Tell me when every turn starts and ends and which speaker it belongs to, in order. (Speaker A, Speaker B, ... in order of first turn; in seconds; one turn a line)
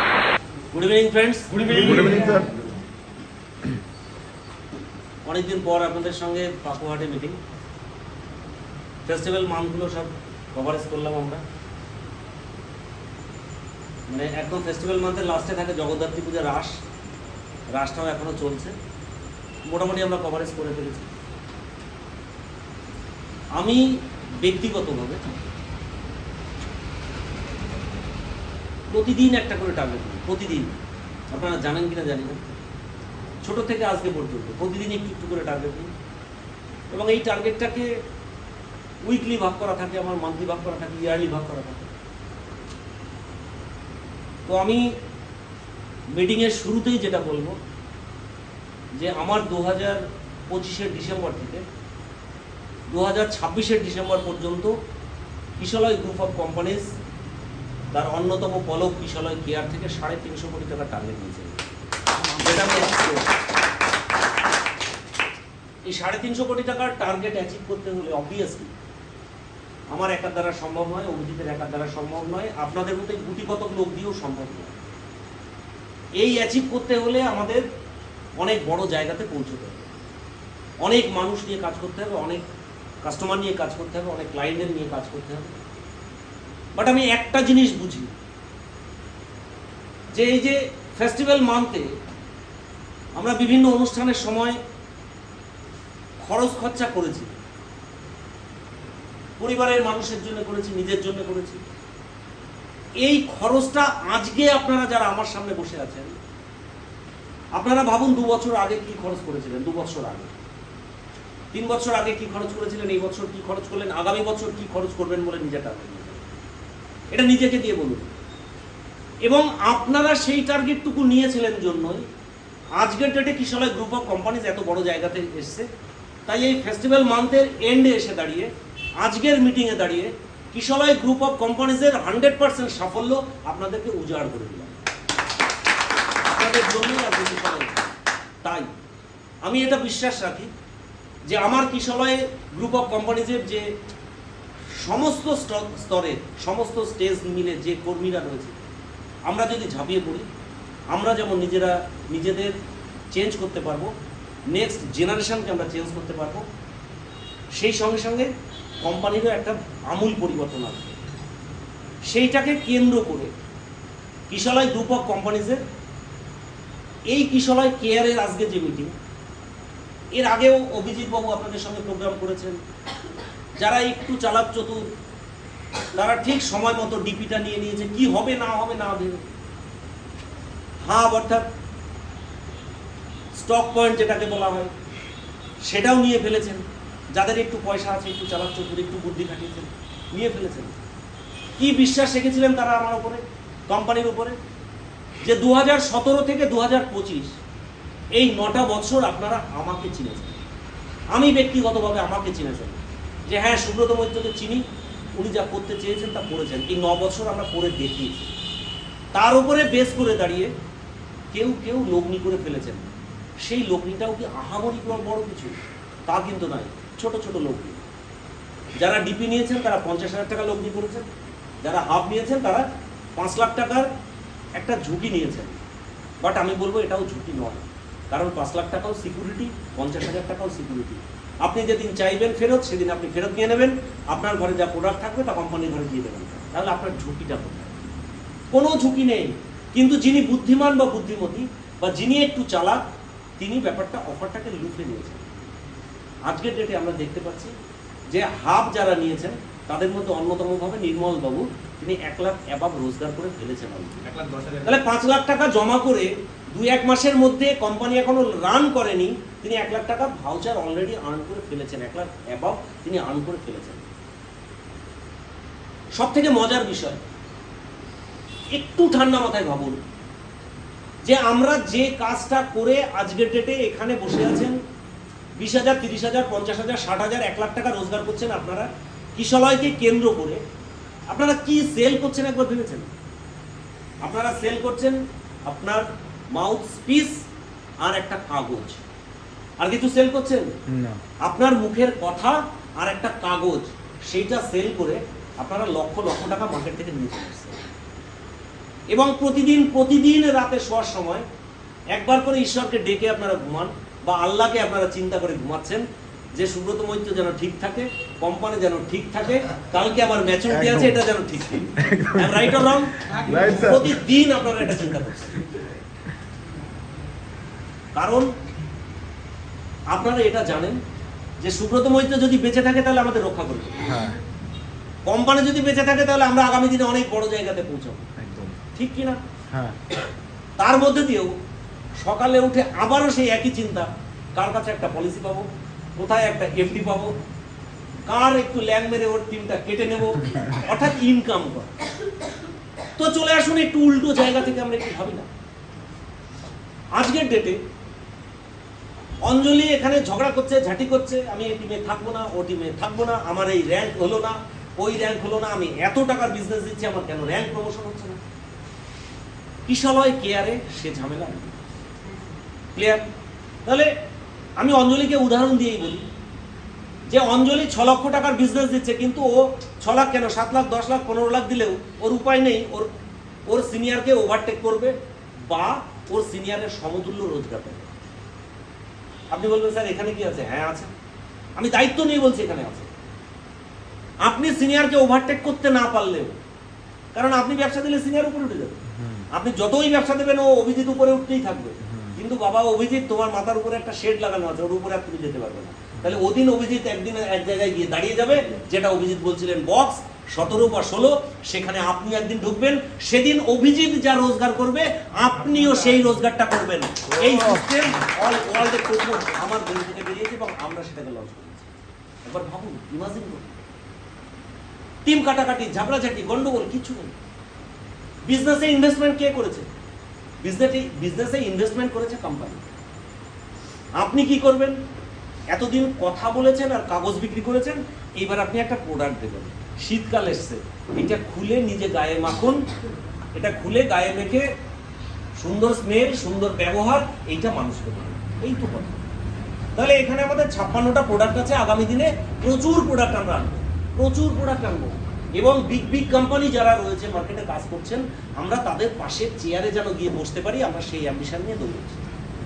Speaker A: 0.7-2.0
Speaker B: 1.5-2.4
Speaker C: 1.7-2.5
Speaker A: 5.2-7.4
Speaker A: 9.1-11.4
Speaker A: 14.1-16.8
Speaker A: 17.7-18.7
Speaker A: 19.7-21.1
Speaker A: 23.6-25.4
Speaker A: 28.9-30.8
Speaker A: 31.3-32.4
Speaker A: 33.4-35.9
Speaker A: 36.9-37.9
Speaker A: 39.1-41.9
Speaker A: 44.5-44.9
Speaker A: 46.1-47.6
Speaker A: 49.0-51.6
Speaker A: 52.9-54.8
Speaker A: 55.6-56.9
Speaker A: 57.9-61.6
Speaker A: 62.4-63.2
Speaker B: 62.5-62.9
Speaker A: 65.9-68.7
Speaker A: 69.9-74.8
Speaker A: 76.2-77.7
Speaker A: 78.4-79.9
Speaker A: 80.8-82.5
Speaker A: 83.0-85.6
Speaker A: 86.8-88.1
Speaker A: 90.1-91.9
Speaker A: 93.2-94.6
Speaker A: 96.2-97.3
Speaker A: 99.4-101.6
Speaker A: 103.0-106.1
Speaker A: 107.6-110.3
Speaker A: 111.5-116.2
Speaker A: 117.1-118.1
Speaker A: 119.2-122.1
Speaker A: 122.8-125.7
Speaker A: 126.3-134.8
Speaker A: 136.2-137.8
Speaker A: 138.4-138.7
Speaker A: 139.4-140.5
Speaker A: 141.3-143.7
Speaker A: 144.8-148.5
Speaker A: 149.3-150.3
Speaker A: 150.9-152.6
Speaker A: 153.1-153.9
Speaker A: 154.5-156.5
Speaker A: 157.6-158.3
Speaker A: 158.8-160.9
Speaker A: 162.1-163.3
Speaker A: 164.3-165.6
Speaker A: 167.1-168.9
Speaker A: 170.2-172.6
Speaker A: 173.6-174.9
Speaker A: 175.9-179.2
Speaker A: 180.9-181.5
Speaker A: 183.4-184.7
Speaker A: 185.7-190.8
Speaker A: 191.6-194.4
Speaker A: 195.2-197.3
Speaker A: 198.2-200.4
Speaker A: 201.1-204.6
Speaker A: 205.2-208.3
Speaker A: 209.1-210.5
Speaker A: 211.3-212.9
Speaker A: 213.4-217.8
Speaker A: 218.8-221.0
Speaker A: 221.6-222.6
Speaker A: 223.2-223.9
Speaker A: 224.6-225.6
Speaker A: 226.2-237.8
Speaker A: 238.5-242.8
Speaker A: 243.4-245.3
Speaker A: 246.3-247.5
Speaker A: 248.1-254.1
Speaker B: 254.1-254.8
Speaker A: 254.6-263.9
Speaker A: 266.0-267.0
Speaker A: 268.5-269.8
Speaker A: 271.0-274.6
Speaker A: 275.4-280.4
Speaker A: 281.1-282.9
Speaker A: 284.0-287.2
Speaker A: 287.8-288.8
Speaker A: 289.6-290.5
Speaker C: 290.7-291.0
Speaker A: 291.2-297.7
Speaker A: 298.9-301.2
Speaker A: 301.9-305.8
Speaker A: 306.4-315.5
Speaker C: 310.5-314.1
Speaker B: 313.2-313.5
Speaker C: 314.6-315.0
Speaker A: 317.9-318.3
Speaker A: 319.9-320.8
Speaker A: 321.4-324.0
Speaker C: 323.8-324.2
Speaker A: 325.1-328.1
Speaker C: 328.2-328.6
Speaker A: 328.8-329.2
Speaker C: 329.5-329.8
Speaker A: 330.6-331.3
Speaker A: 332.0-337.2
Speaker A: 338.1-341.7
Speaker A: 343.0-345.3
Speaker A: 347.0-347.6
Speaker A: 349.2-358.2
Speaker A: 359.7-361.6
Speaker A: 362.8-363.0
Speaker A: 363.7-363.9
Speaker A: 364.6-366.1
Speaker A: 367.1-372.9
Speaker A: 373.5-374.9
Speaker A: 375.5-377.9
Speaker A: 379.3-380.9
Speaker A: 381.6-382.9
Speaker A: 384.2-386.3
Speaker A: 387.1-388.8
Speaker C: 388.9-389.3
Speaker A: 389.3-411.7
Speaker C: 391.8-392.2
Speaker C: 407.1-407.7
Speaker A: 412.3-413.6
Speaker A: 415.1-417.1
Speaker A: 418.3-419.7
Speaker A: 420.4-422.7
Speaker A: 424.0-424.8
Speaker A: 425.5-432.6
Speaker A: 433.4-434.5
Speaker A: 435.4-439.0
Speaker A: 439.8-452.0